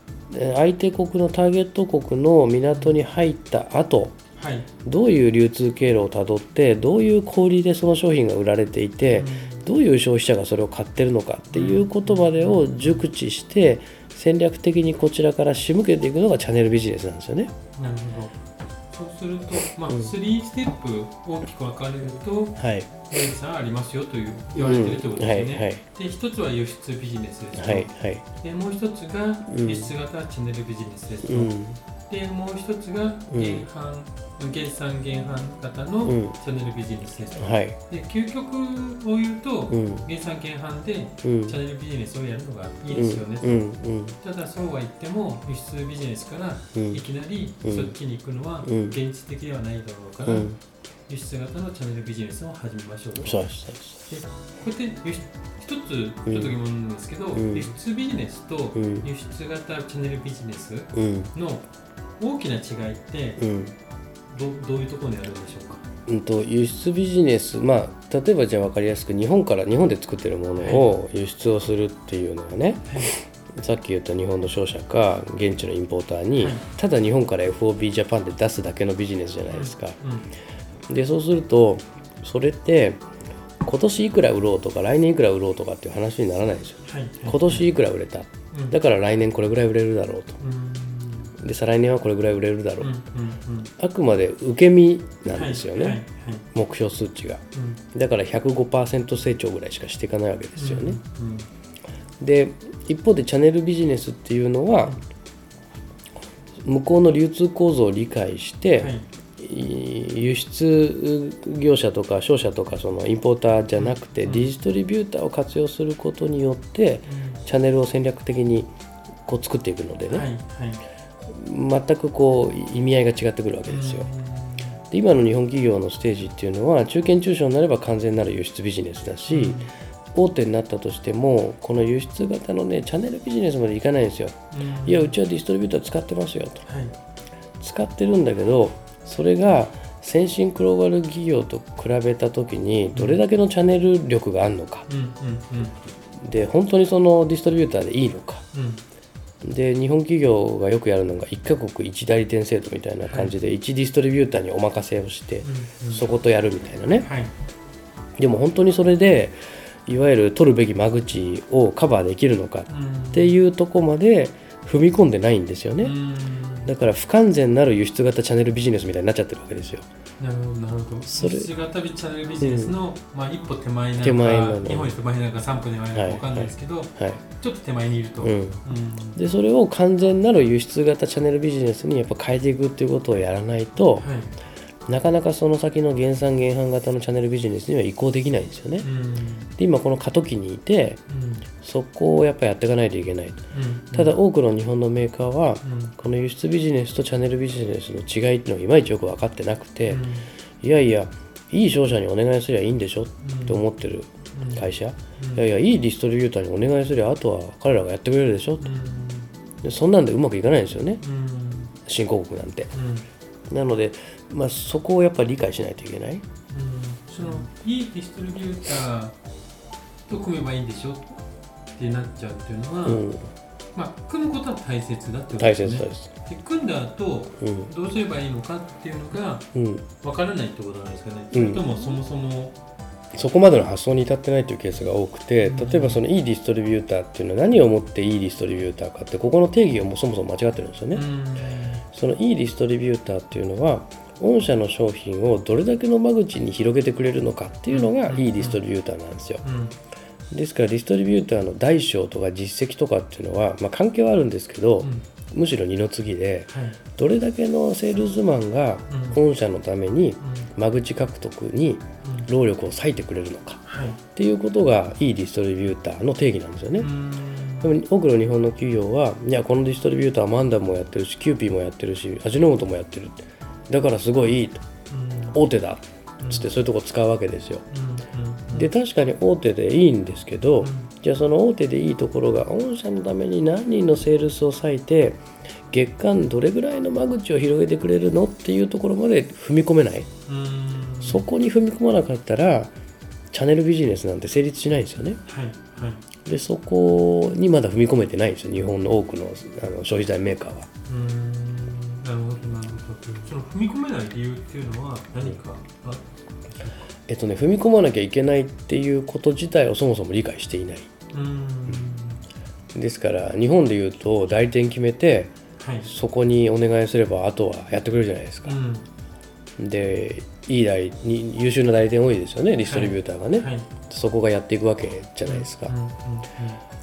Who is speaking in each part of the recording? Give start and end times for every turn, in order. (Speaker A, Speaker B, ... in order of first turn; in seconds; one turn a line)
Speaker A: 0.3-4.2
Speaker B: 4.4-4.7
Speaker A: 4.8-17.5
Speaker B: 9.1-9.7
Speaker B: 11.5-13.0
Speaker B: 17.8-18.3
Speaker B: 18.9-31.5
Speaker A: 19.9-20.1
Speaker A: 22.6-23.1
Speaker A: 24.5-25.8
Speaker A: 27.5-28.2
Speaker A: 29.5-29.9
Speaker A: 31.2-31.8
Speaker B: 32.1-50.5
Speaker A: 33.3-33.6
Speaker A: 36.0-36.4
Speaker A: 37.4-37.8
Speaker A: 39.7-40.1
Speaker A: 41.2-41.6
Speaker A: 42.9-44.2
Speaker A: 46.7-47.0
Speaker A: 47.6-47.9
Speaker A: 48.6-49.0
Speaker A: 50.2-50.6
Speaker B: 51.1-61.7
Speaker A: 53.2-54.1
Speaker A: 56.3-56.5
Speaker A: 57.3-57.7
Speaker A: 58.7-59.1
Speaker A: 60.9-61.3
Speaker B: 62.2-63.4
Speaker A: 63.4-63.8
Speaker B: 64.3-65.8
Speaker A: 66.1-80.0
Speaker B: 70.6-70.9
Speaker B: 72.8-73.1
Speaker B: 76.4-76.6
Speaker B: 79.5-80.3
Speaker A: 80.9-83.0
Speaker A: 83.6-90.4
Speaker B: 86.8-87.7
Speaker B: 90.4-91.3
Speaker A: 91.4-92.9
Speaker B: 92.8-93.7
Speaker A: 93.8-96.0
Speaker B: 95.3-96.4
Speaker A: 96.5-97.4
Speaker B: 97.5-97.8
Speaker A: 97.9-101.0
Speaker B: 100.6-101.5
Speaker A: 102.2-105.0
Speaker A: 106.6-118.7
Speaker B: 108.8-109.0
Speaker B: 113.8-114.5
Speaker B: 117.0-117.4
Speaker A: 119.2-120.3
Speaker B: 120.1-120.8
Speaker A: 121.3-124.1
Speaker B: 123.7-124.8
Speaker A: 124.9-136.7
Speaker B: 129.3-129.7
Speaker B: 134.5-135.1
Speaker B: 136.7-136.9
Speaker A: 137.6-144.8
Speaker B: 142.9-143.2
Speaker B: 144.9-145.8
Speaker A: 146.2-148.4
Speaker B: 148.5-148.8
Speaker A: 149.4-157.1
Speaker B: 153.0-153.3
Speaker B: 155.4-156.0
Speaker B: 157.0-157.3
Speaker A: 158.2-165.9
Speaker B: 162.7-163.4
Speaker B: 165.8-166.7
Speaker A: 166.6-169.8
Speaker B: 170.2-179.2
Speaker A: 171.1-171.5
Speaker A: 172.4-172.8
Speaker A: 174.0-174.9
Speaker A: 175.9-177.2
Speaker A: 178.2-178.6
Speaker A: 179.1-184.1
Speaker B: 184.0-184.3
Speaker A: 184.9-188.9
Speaker B: 188.8-189.5
Speaker A: 189.6-191.0
Speaker B: 191.1-191.5
Speaker A: 191.6-200.0
Speaker B: 193.5-194.1
Speaker B: 195.6-195.9
Speaker B: 199.9-200.3
Speaker A: 200.6-208.7
Speaker B: 203.2-203.6
Speaker B: 204.3-204.6
Speaker B: 205.2-205.4
Speaker B: 208.6-209.3
Speaker A: 209.6-211.0
Speaker B: 211.0-211.7
Speaker A: 211.8-212.7
Speaker B: 212.7-213.1
Speaker A: 213.5-216.2
Speaker B: 216.5-219.2
Speaker B: 220.1-221.2
Speaker B: 221.8-223.0
Speaker A: 222.8-223.3
Speaker B: 223.7-232.6
Speaker A: 225.4-226.1
Speaker A: 227.4-227.7
Speaker A: 229.5-229.9
Speaker A: 231.3-231.6
Speaker A: 233.1-241.1
Speaker B: 235.4-236.0
Speaker B: 240.9-241.8
Speaker A: 241.9-249.4
Speaker B: 247.7-248.6
Speaker B: 249.4-249.8
Speaker A: 250.3-263.6
Speaker B: 256.5-256.8
Speaker B: 258.9-259.2
Speaker B: 260.2-260.5
Speaker B: 262.0-262.3
Speaker B: 263.6-264.0
Speaker A: 264.1-266.9
Speaker B: 266.8-267.8
Speaker A: 267.6-274.6
Speaker B: 274.9-275.4
Speaker A: 275.3-277.6
Speaker B: 276.2-276.5
Speaker B: 277.7-278.7
Speaker A: 278.5-290.1
Speaker B: 280.6-280.9
Speaker B: 290.3-291.2
Speaker A: 291.0-292.7
Speaker A: 293.3-295.2
Speaker B: 295.2-296.0
Speaker A: 296.2-300.7
Speaker B: 300.9-306.7
Speaker A: 307.1-310.9
Speaker B: 311.1-312.2
Speaker A: 312.7-315.3
Speaker B: 315.6-315.9
Speaker A: 315.8-318.6
Speaker B: 318.4-318.9
Speaker A: 319.6-325.7
Speaker B: 322.6-323.7
Speaker B: 325.2-326.6